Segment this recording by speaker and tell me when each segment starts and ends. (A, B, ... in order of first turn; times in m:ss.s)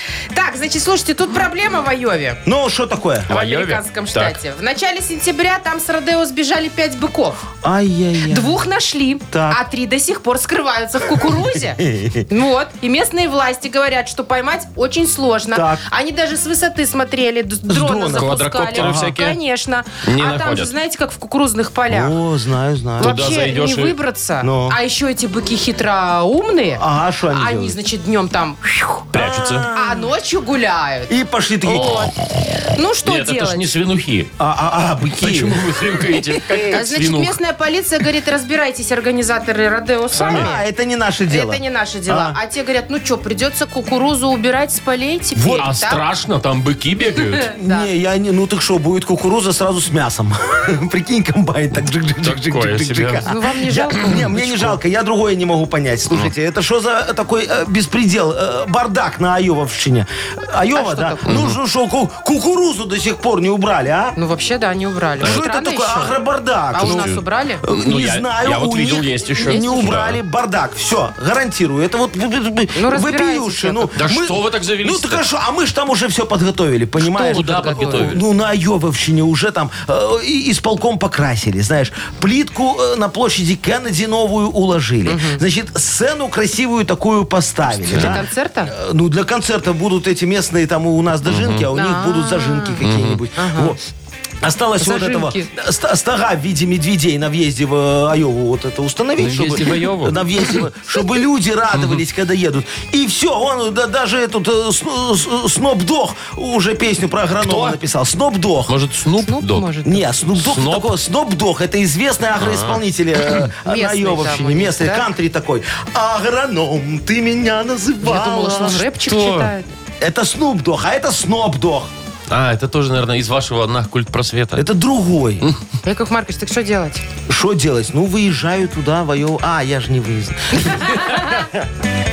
0:00.3-0:02.4 A
0:02.4-0:03.3 B
0:03.3-0:04.4 C
0:03.3-0:07.4 A
0:07.6-0:08.5 B
0:08.3-0:22.2 A
0:09.3-0:09.6 B
0:11.8-0:12.2 B
0:15.5-0:15.8 B
0:17.7-0:19.1 B
0:18.1-0:19.4 C
0:20.0-0:20.7 C
0:21.9-0:23.3 B
0:23.0-0:24.0 C
0:23.0-0:29.1 A
0:24.4-0:24.8 B
0:26.8-0:27.8 B
0:29.1-0:29.7 C
0:29.1-0:30.1 B
0:29.7-0:31.1 A
0:31.1-0:32.1 B
0:31.6-0:32.1 A
0:31.8-0:32.1 C
0:32.7-0:33.6 A
0:33.0-0:34.3 C
0:34.4-0:36.6 B
0:35.2-0:37.4 C
0:36.7-0:40.6 A
0:40.1-0:40.5 C
0:40.2-0:42.4 B
0:41.3-0:46.0 A
0:45.4-0:47.5 C
0:47.4-0:47.9 A
0:47.6-1:04.2 B
0:52.2-0:53.2 C
0:53.2-0:54.7 A
0:54.0-0:54.5 C
1:00.7-1:01.4 A
1:01.3-1:01.6 C
1:04.2-1:06.2 A
1:05.2-1:33.8 B
1:06.7-1:07.6 A
1:06.8-1:10.2 C
1:09.4-1:09.9 A
1:12.8-1:13.9 A
1:14.0-1:15.2 C
1:17.1-1:18.1 A
1:17.1-1:18.2 C
1:25.0-1:25.4 A
1:27.8-1:28.2 C
1:27.9-1:28.7 A
1:31.2-1:31.7 C
1:31.7-1:32.8 A
1:32.8-1:33.2 C
1:33.4-1:33.8 A
1:34.4-1:48.8 B
1:34.8-1:35.5 A
1:39.2-1:40.2 C
1:41.7-1:42.0 C
1:47.4-1:47.8 C
1:48.7-1:49.7 C
1:49.2-1:50.0 A
1:49.9-1:58.8 B
1:50.3-1:50.9 C
1:52.4-1:52.8 C
1:53.6-1:55.1 A
1:58.0-1:59.7 A
1:59.0-1:59.5 C
2:00.0-2:01.9 B
2:02.3-2:04.6 C
2:04.6-2:05.4 B
2:05.8-2:07.0 A
2:07.3-2:11.0 B
2:10.6-2:11.2 A